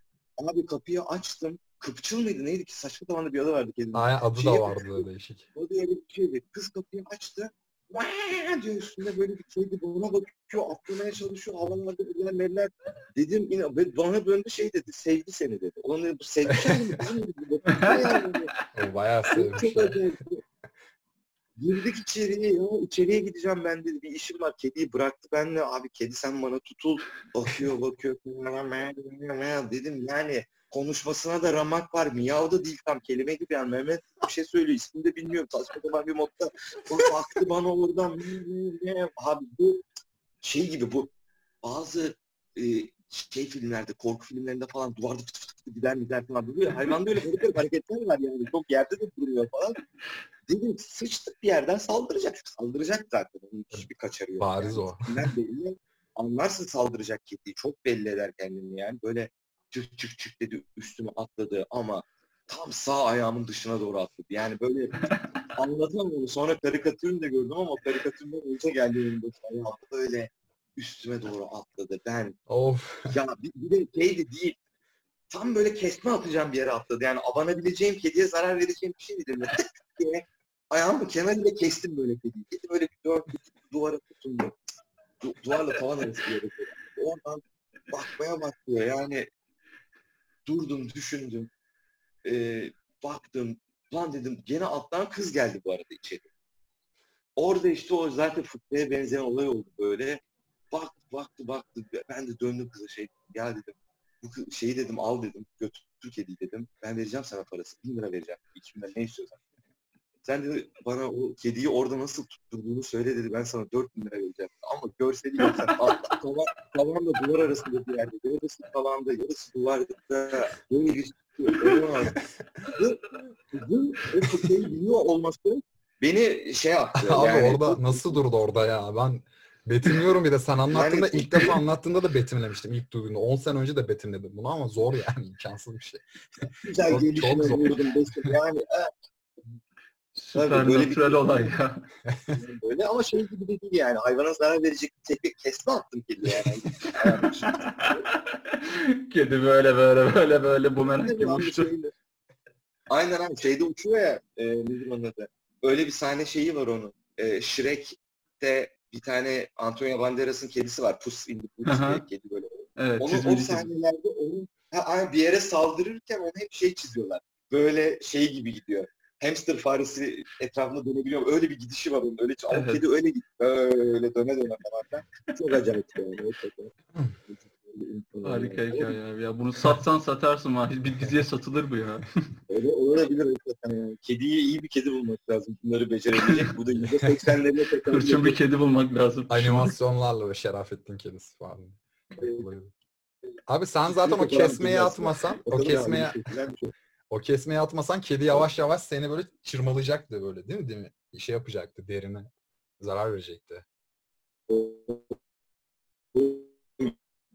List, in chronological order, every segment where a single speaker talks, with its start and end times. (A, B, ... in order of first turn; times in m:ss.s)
0:00.4-0:18.5 A
0:03.9-0:05.5 B
0:17.8-0:18.2 C
0:18.7-0:20.0 B
0:19.3-0:20.4 A
0:21.6-0:39.8 A
0:40.4-0:41.1 A
0:41.6-0:49.8 A
0:50.5-1:12.4 A
0:54.4-0:55.1 B
1:12.5-1:13.2 B
1:13.1-1:14.6 A
1:15.3-1:24.6 A
1:25.2-1:29.3 A
1:30.5-1:31.5 A
1:32.2-1:36.3 A
1:37.4-1:49.4 A
1:50.2-2:08.2 A
2:07.0-2:18.3 B
2:10.7-2:11.5 A
2:16.6-2:19.0 A
2:20.2-2:21.9 C
2:20.4-2:21.5 A
2:22.1-2:22.4 B
2:22.3-2:28.0 A
2:27.5-2:31.7 C
2:31.0-2:31.9 A
2:32.9-2:56.7 A
2:41.7-2:42.0 C
2:42.8-2:43.7 C
2:52.5-2:52.8 C
2:57.3-2:59.0 A
2:58.2-3:02.3 C
3:02.5-3:08.4 A
3:06.3-3:06.5 C
3:07.9-3:09.8 C
3:09.3-3:12.7 B
3:12.2-3:12.4 A
3:13.5-3:16.2 B
3:13.9-3:16.7 A
3:17.1-3:23.6 B
3:24.5-3:25.2 A
3:26.1-3:27.0 A